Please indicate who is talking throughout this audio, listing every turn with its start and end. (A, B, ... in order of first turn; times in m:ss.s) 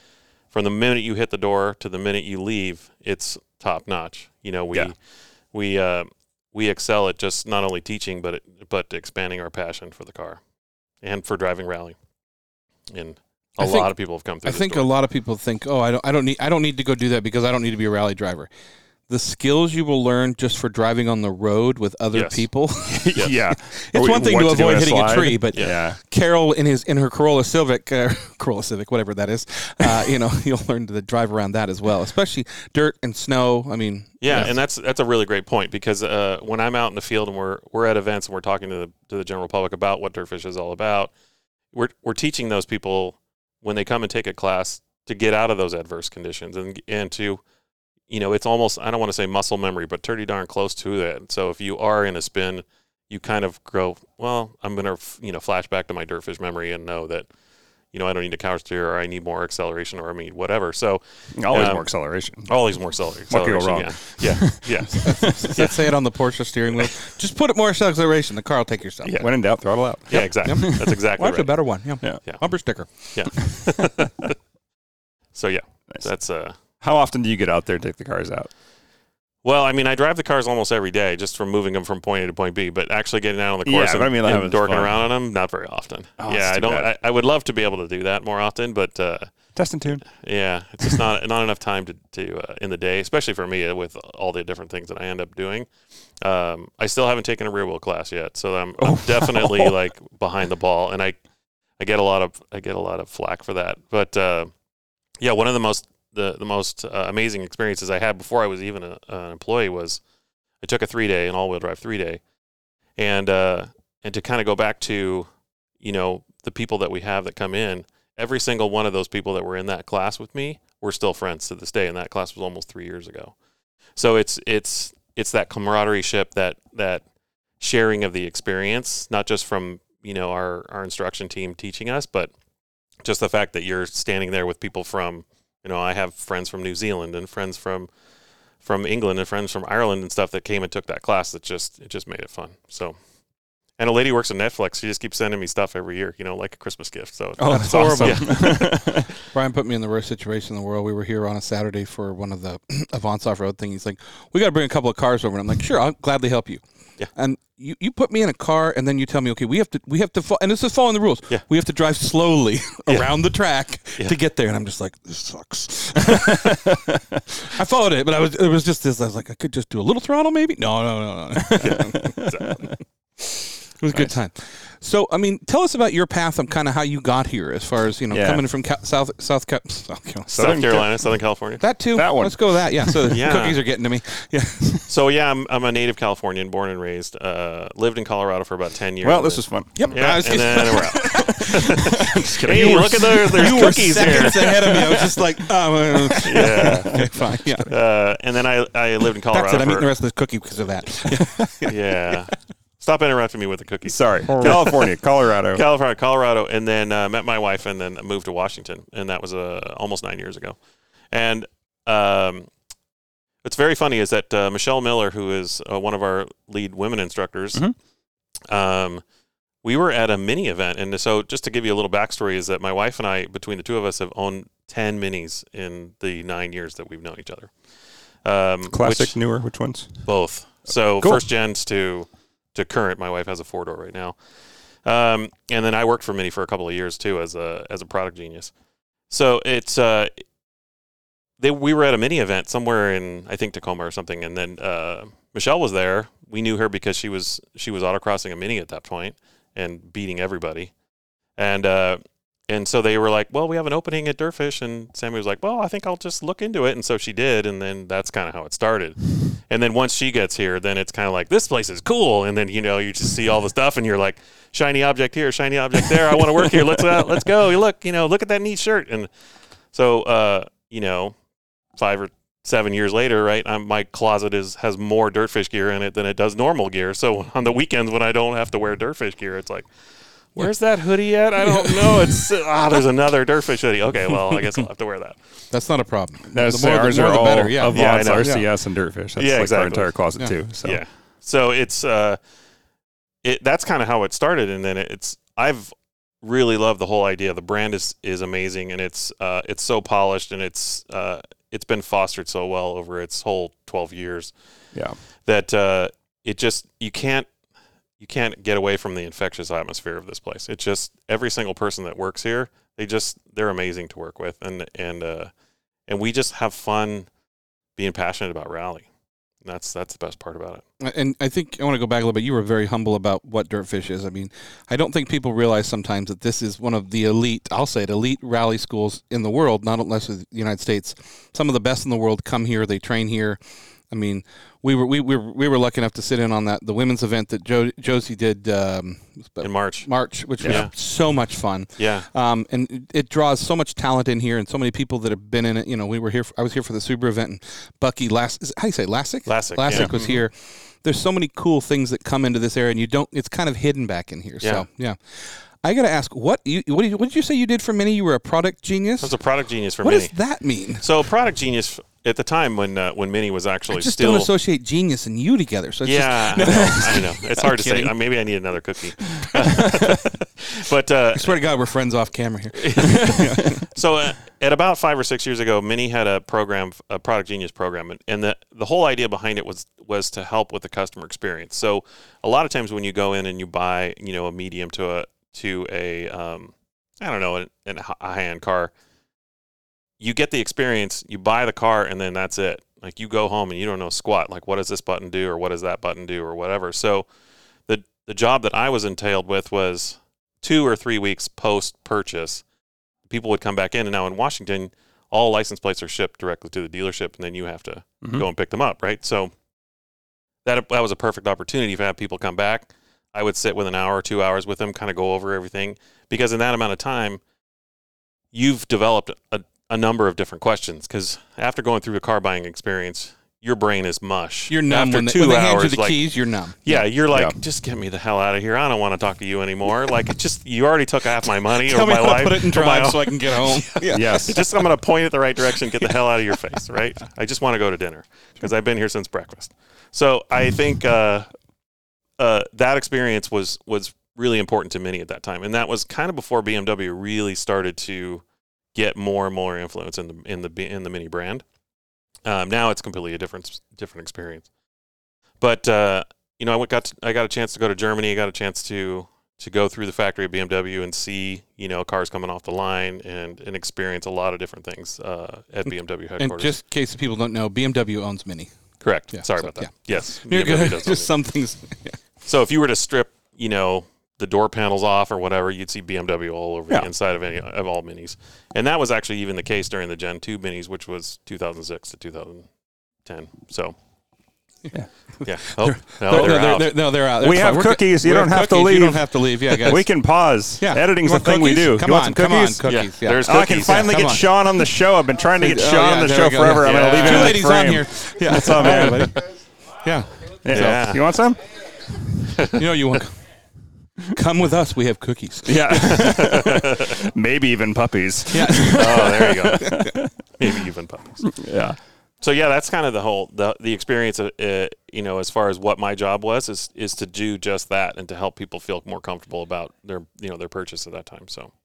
0:00.5-0:05.0 A
0:05.5-0:10.4 A
0:11.0-0:12.0 A
0:12.9-0:14.9 A
0:13.6-0:18.5 B
0:19.1-0:34.5 B
0:22.1-0:22.5 A
0:22.9-0:26.0 C
0:34.2-0:41.1 A
0:41.7-0:47.4 A
0:48.1-0:57.3 A
0:57.9-1:05.8 A
1:01.3-1:02.5 C
1:03.3-1:05.6 C
1:05.0-1:09.3 B
1:09.0-1:09.3 A
1:09.2-1:11.0 C
1:10.1-1:11.5 A
1:10.2-1:12.9 B
1:13.0-1:14.4 A
1:13.4-1:13.9 C
1:15.4-1:16.6 A
1:16.8-1:18.5 C
1:19.4-1:29.3 A
1:23.6-1:25.0 C
1:26.2-1:26.9 C
1:29.6-1:30.0 C
1:30.1-1:35.7 A
1:36.2-1:41.2 A
1:38.8-1:39.7 C
1:41.8-1:44.5 A
1:45.2-1:50.0 A
1:50.6-1:52.2 A
1:53.0-1:55.3 A
1:55.8-2:03.4 A
2:04.0-2:07.0 A
2:07.6-2:12.3 A
2:13.0-2:17.9 A
2:18.6-2:23.0 A
2:23.8-2:28.8 A
2:27.4-2:29.1 C
2:27.5-2:28.6 B
2:29.3-2:36.6 B
2:37.2-2:46.8 B
2:42.9-2:43.1 A
2:46.1-2:47.2 C
2:47.4-2:52.7 B
2:51.4-2:52.7 C
2:51.6-2:52.6 A
2:53.2-3:00.3 B
2:58.1-2:58.4 C
3:00.3-3:01.0 C
3:00.3-3:01.6 A
3:01.6-3:04.9 B
3:01.9-3:03.1 C
3:03.1-3:03.6 A
3:04.9-3:14.9 A
3:09.0-3:15.1 C
3:09.8-3:11.5 B
3:12.2-3:17.7 B
3:16.1-3:17.0 C
3:16.2-3:17.1 A
3:17.7-3:19.9 A
3:19.3-3:22.2 B
3:21.7-3:24.9 A
3:23.9-3:25.6 C
3:24.3-3:24.8 B
3:25.5-3:30.6 A
3:31.1-3:32.5 A
3:33.4-3:37.6 A
3:38.5-3:39.0 A
3:39.6-3:47.5 A
3:48.2-3:49.2 A
3:48.7-3:49.9 C
3:50.0-3:54.2 A
3:54.8-3:58.5 A
3:59.1-4:00.1 A
4:01.4-4:10.7 A
4:11.4-4:29.1 A
4:29.7-4:31.2 A
4:31.8-4:39.7 A
4:40.3-4:45.2 A
4:45.5-4:48.5 B
4:46.3-4:50.8 C
4:47.7-4:48.4 A
4:49.2-4:49.9 A
4:50.6-4:52.2 A
4:53.2-5:04.3 A
5:05.3-5:07.3 A
5:08.0-5:15.3 A
5:15.9-5:17.1 A
5:17.8-5:18.9 A
5:19.4-5:20.6 A
5:20.8-5:59.2 B
5:39.4-5:39.9 A
5:40.4-5:40.7 A
5:41.8-5:42.1 A
5:49.3-5:50.2 A
5:49.7-5:50.0 C
5:59.0-6:00.1 A
5:59.8-6:00.8 B
6:00.8-6:04.3 A
6:03.7-6:08.0 B
6:05.8-6:11.4 A
6:11.2-6:13.6 B
6:12.5-6:28.7 A
6:30.0-6:37.1 A
6:37.7-6:42.4 A
6:43.1-6:49.3 A
6:50.4-6:57.2 A
6:58.3-7:06.0 A
7:04.5-7:06.8 B
7:06.6-7:21.3 A
7:11.6-7:14.4 B
7:13.9-7:14.4 C
7:22.2-7:28.2 A
7:28.8-7:31.4 A
7:32.3-7:34.5 A
7:35.4-7:46.5 A
7:46.2-7:48.5 B
7:48.8-7:51.1 A
7:49.1-7:52.0 B
7:52.2-8:02.5 A
8:03.0-8:03.8 A
8:05.2-8:09.9 B
8:05.2-8:06.7 A
8:07.2-8:12.6 C
8:10.6-8:14.6 B
8:12.6-8:14.2 A
8:13.2-8:19.2 C
8:15.4-8:19.2 B
8:16.6-8:17.4 A
8:19.8-8:20.9 B
8:20.4-8:21.4 C
8:20.5-8:21.1 A
8:22.2-8:22.6 A
8:22.5-8:23.2 B
8:24.1-8:26.1 B
8:25.5-8:30.1 C
8:25.8-8:27.0 A
8:28.3-8:30.0 B
8:28.7-8:29.8 A
8:30.4-8:31.3 A
8:31.3-8:31.8 C
8:32.2-8:41.5 A